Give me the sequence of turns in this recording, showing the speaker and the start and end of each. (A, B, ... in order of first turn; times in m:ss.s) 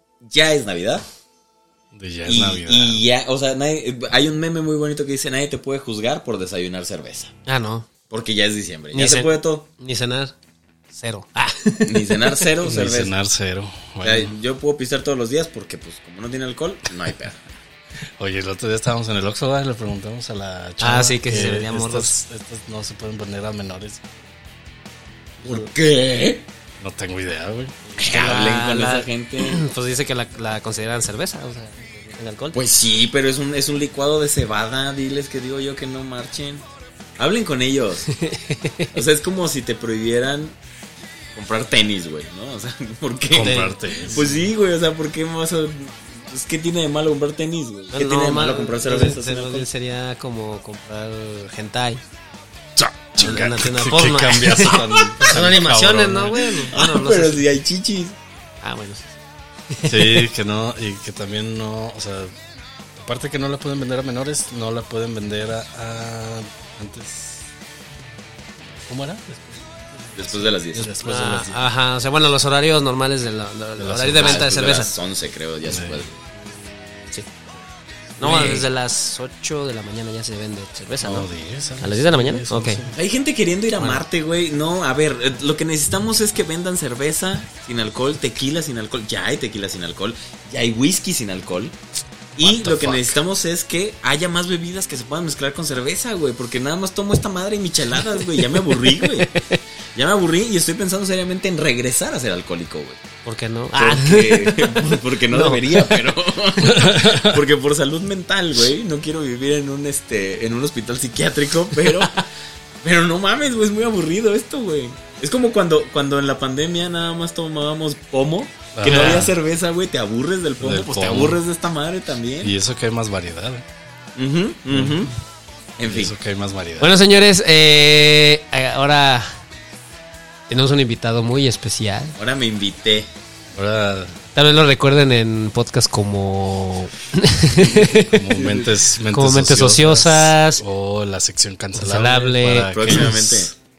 0:00.2-0:01.0 A
0:01.9-0:03.0 B
0:02.3-0:07.3 A
0:07.5-0:07.9 C
0:08.1-0:09.7 A
0:08.9-0:10.4 C
0:10.9-0:12.4 C
0:11.9-0:13.1 A
0:12.6-0:14.4 B
0:14.0-0:17.4 A
0:18.2-0:24.0 B
0:20.8-0:22.2 C
0:25.4-0:26.4 A
0:26.8-0:27.9 B
0:28.0-0:32.6 C
0:28.0-0:29.6 A
0:32.5-0:36.6 A
0:37.2-0:38.1 A
0:38.1-0:39.0 C
0:38.9-0:40.6 A
0:41.4-0:49.7 A
0:43.3-0:44.3 B
0:43.4-0:44.2 C
0:47.9-0:52.0 C
0:52.8-0:56.5 B
0:53.2-0:57.5 C
0:56.7-0:58.2 A
0:58.6-0:59.2 C
0:59.7-1:00.3 C
0:59.8-1:02.3 B
1:03.0-1:07.5 B
1:08.7-1:11.7 B
1:10.2-1:10.9 A
1:10.8-1:14.9 C
1:13.8-1:14.5 B
1:14.2-1:16.1 A
1:15.7-1:16.1 B
1:16.4-1:17.6 C
1:18.2-1:21.3 C
1:18.2-1:18.6 B
1:18.2-1:18.6 A
1:21.0-1:23.0 B
1:21.8-1:22.9 C
1:22.9-1:31.8 A
1:32.4-1:39.4 A
1:32.4-1:33.2 B
1:38.4-1:39.6 C
1:40.0-1:43.0 A
1:43.2-1:46.0 C
1:43.8-1:52.2 A
1:46.6-1:47.4 B
1:52.8-2:02.5 A
1:58.7-1:59.3 B
1:58.8-1:59.3 C
2:00.6-2:01.4 B
2:02.4-2:03.6 B
2:04.2-2:05.1 A
2:05.8-2:06.1 A
2:05.9-2:07.0 B
2:06.8-2:09.3 C
2:10.5-2:12.2 C
2:12.2-2:13.1 A
2:13.5-2:14.2 B
2:14.4-2:18.6 C
2:17.6-2:23.5 B
2:19.1-2:20.6 C
2:21.8-2:23.0 C
2:22.6-2:23.5 A